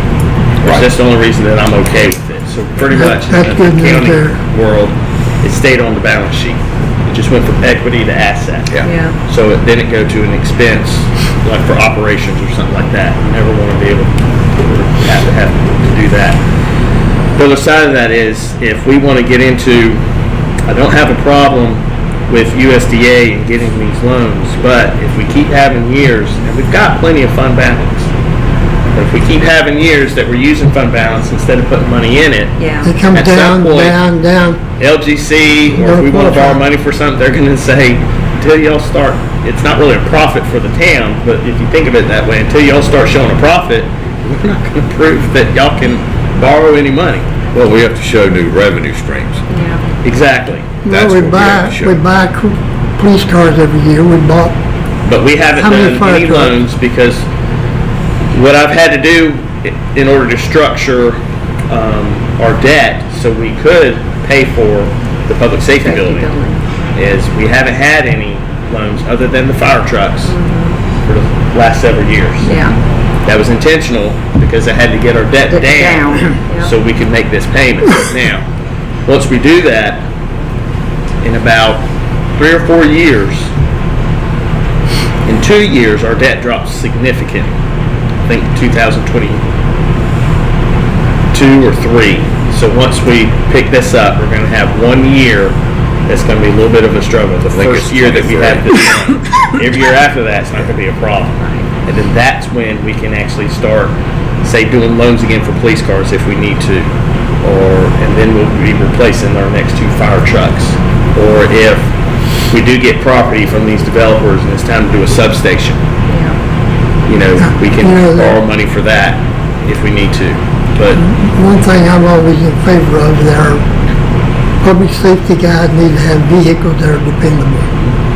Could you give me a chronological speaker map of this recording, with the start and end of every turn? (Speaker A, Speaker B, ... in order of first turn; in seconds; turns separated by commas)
Speaker A: 0.6-8.8, Speaker B: 0.6-0.9, Speaker C: 2.9-4.4, Speaker D: 8.8-9.2, Speaker A: 9.3-16.4, Speaker A: 17.4-20.0, Speaker A: 20.7-28.1, Speaker A: 28.9-32.6, Speaker D: 32.6-33.0, Speaker C: 32.8-34.6, Speaker A: 33.1-34.0, Speaker A: 34.8-47.4, Speaker C: 35.7-36.6, Speaker B: 47.5-49.4, Speaker D: 49.5-49.8, Speaker A: 50.0-50.7, Speaker C: 50.8-54.5, Speaker B: 50.9-52.0, Speaker A: 55.0-57.3, Speaker C: 55.6-56.6, Speaker A: 58.3-66.3, Speaker D: 65.8-66.6, Speaker A: 67.0-70.4, Speaker D: 70.3-70.8, Speaker A: 71.1-72.5, Speaker D: 72.4-72.8, Speaker A: 73.2-78.5, Speaker D: 75.5-76.7, Speaker A: 79.1-80.1, Speaker A: 81.2-83.5, Speaker A: 85.3-87.5, Speaker A: 88.3-89.4, Speaker A: 91.3-111.9, Speaker B: 97.5-99.1, Speaker A: 112.5-115.8, Speaker D: 116.1-116.4, Speaker A: 117.1-121.0, Speaker C: 117.4-118.4, Speaker D: 120.9-121.2, Speaker C: 121.1-123.6, Speaker C: 124.6-127.7